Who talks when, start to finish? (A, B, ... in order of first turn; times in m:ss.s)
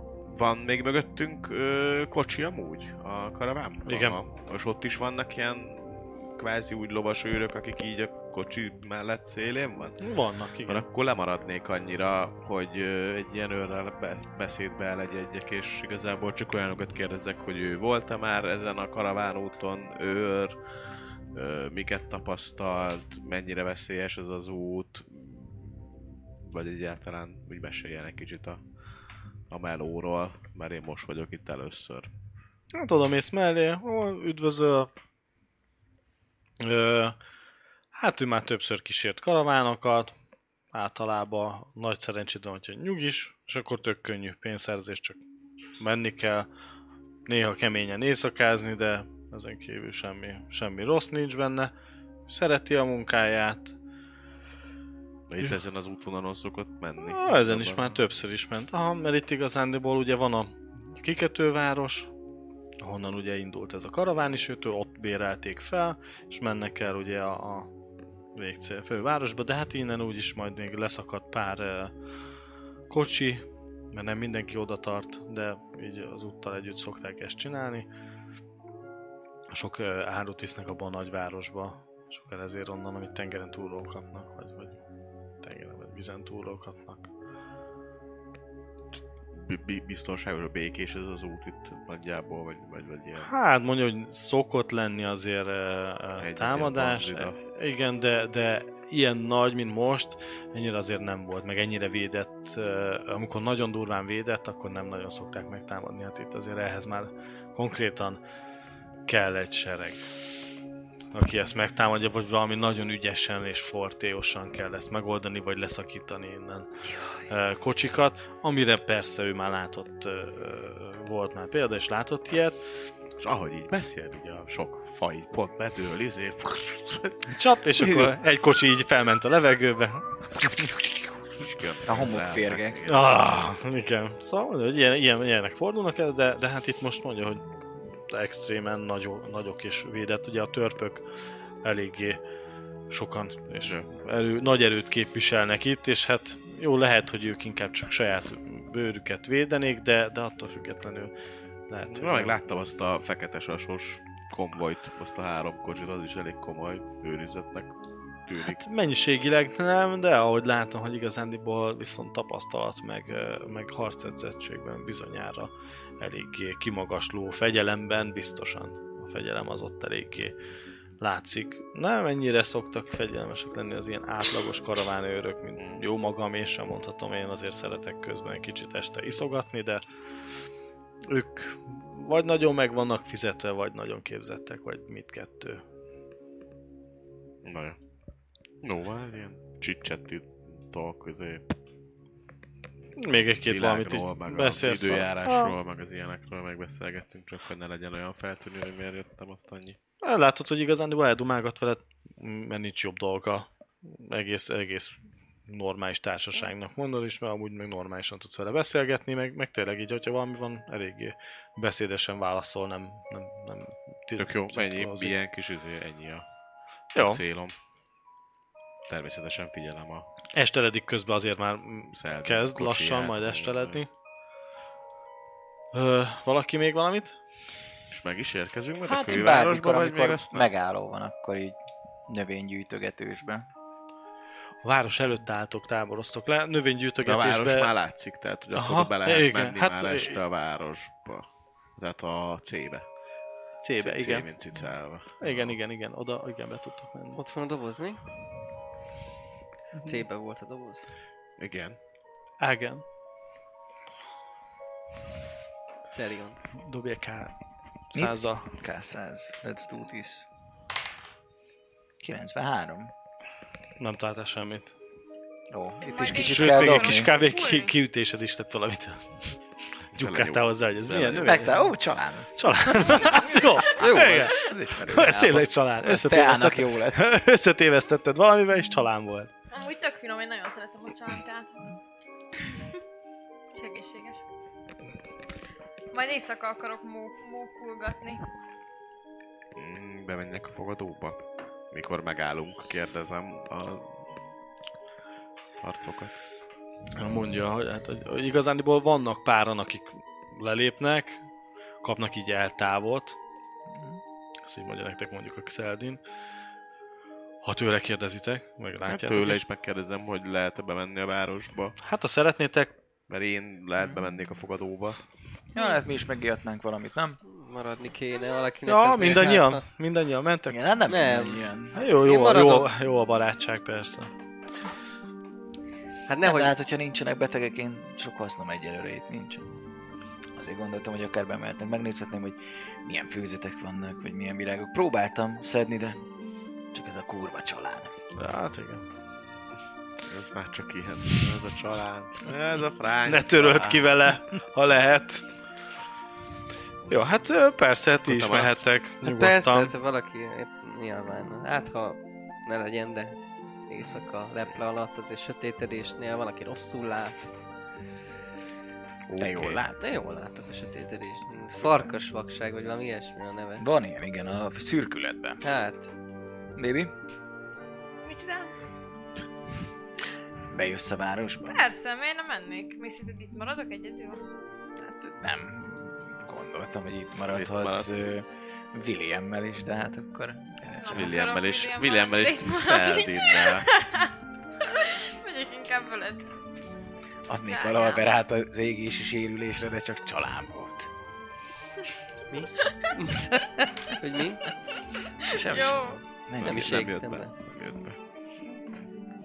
0:00.3-0:10.0 A
0:03.8-0:04.2 B
0:10.0-0:10.8 B
0:10.6-0:20.6 A
0:21.3-0:25.8 A
0:26.4-0:28.6 A
0:29.5-0:32.1 A
0:32.7-0:34.9 B
0:36.6-0:37.2 B
0:37.9-0:40.1 B
0:40.7-0:45.2 B
0:45.8-0:46.5 B
0:47.2-0:51.7 B
0:52.3-0:53.8 B
0:55.3-0:57.8 A
0:57.0-1:02.1 B
1:02.8-1:07.7 B
1:08.4-1:11.9 B
1:12.9-1:17.9 B
1:19.5-1:24.8 B
1:25.4-1:27.1 B
1:29.3-1:33.3 A
1:33.2-1:48.2 B
1:36.2-1:37.4 A
1:49.0-1:50.0 B
1:51.1-1:56.7 B
1:57.3-2:02.6 B
2:03.2-2:08.2 A
2:07.3-2:10.9 B
2:11.4-2:13.3 A
2:11.8-2:12.8 C
2:12.8-2:17.5 B
2:18.1-2:21.0 B
2:21.6-2:22.2 B
2:22.9-2:31.1 B
2:23.6-2:23.9 A
2:31.7-2:32.4 B
2:31.9-2:37.7 A
2:38.2-2:38.6 A
2:38.5-2:50.3 B
2:51.0-2:59.8 B
2:55.6-2:55.8 A
3:01.0-3:05.6 B
3:07.4-3:07.8 A
3:08.6-3:11.4 A
3:13.0-3:15.6 B
3:13.1-3:19.8 A
3:20.0-3:25.0 B
3:25.5-3:35.1 B
3:34.2-3:36.2 A
3:36.9-3:37.2 B
3:36.9-3:37.5 A
3:38.9-3:40.1 A
3:40.4-3:43.9 B
3:41.9-3:43.8 A
3:45.7-3:47.2 B
3:47.9-3:50.5 A
3:48.8-3:51.6 C
3:52.1-3:53.5 C
3:54.6-3:57.7 B
3:57.0-4:01.2 A
3:58.5-4:00.2 B
4:01.8-4:02.8 A
4:03.6-4:04.3 B
4:03.8-4:05.6 A
4:05.2-4:07.2 B
4:07.1-4:08.0 D
4:09.8-4:10.9 D
4:11.4-4:11.8 A
4:12.4-4:12.8 B
4:15.9-4:16.4 D
4:16.6-4:17.3 B
4:17.9-4:18.5 B
4:17.9-4:20.3 C
4:22.0-4:22.9 C
4:23.8-4:24.8 B
4:25.5-4:27.1 C
4:25.8-4:27.7 E
4:26.1-4:29.1 B
4:29.9-4:31.7 B
4:30.0-4:31.4 A
4:31.2-4:33.1 C
4:32.4-4:39.3 B
4:33.8-4:34.3 D
4:33.8-4:37.1 C
4:39.5-4:41.6 E
4:43.5-4:44.2 E
4:45.9-4:48.2 E
4:49.6-4:51.2 A
4:51.7-4:54.0 A
4:55.6-4:56.1 A
4:56.9-5:01.2 B
5:01.8-5:03.2 B
5:03.7-5:04.0 C
5:04.4-5:06.0 B
5:07.4-5:09.4 B
5:08.8-5:11.8 A
5:11.8-5:12.7 B
5:13.1-5:15.0 A
5:15.5-5:17.2 C
5:15.6-5:15.8 E
5:17.3-5:19.6 D
5:18.6-5:20.6 B
5:20.5-5:21.8 C
5:20.9-5:22.7 D
5:21.7-5:24.1 B
5:26.1-5:26.5 D
5:26.2-5:29.5 C
5:30.4-5:36.0 C
5:36.7-5:37.9 C
5:38.1-5:38.8 B
5:40.0-5:43.9 A
5:43.0-5:45.2 B
5:46.9-5:49.7 B
5:48.0-5:48.6 A
5:49.0-5:53.2 D
5:53.7-5:57.2 D
5:59.1-5:59.6 A
5:59.2-6:00.0 C
5:59.8-6:03.6 D
6:01.6-6:01.9 C
6:03.6-6:05.4 C
6:05.4-6:05.9 D
6:06.6-6:06.9 C
6:08.0-6:08.6 E
6:10.5-6:11.6 C
6:11.5-6:14.2 E
6:15.0-6:21.2 C
6:17.3-6:18.2 A
6:20.8-6:24.1 E
6:20.9-6:23.7 A
6:24.6-6:26.3 E
6:27.3-6:30.9 C
6:27.4-6:28.1 E
6:32.3-6:33.4 D
6:32.6-6:33.0 E
6:33.9-6:34.4 D
6:35.2-6:36.0 E
6:35.3-6:36.9 C
6:36.4-6:38.0 A
6:36.4-6:37.3 D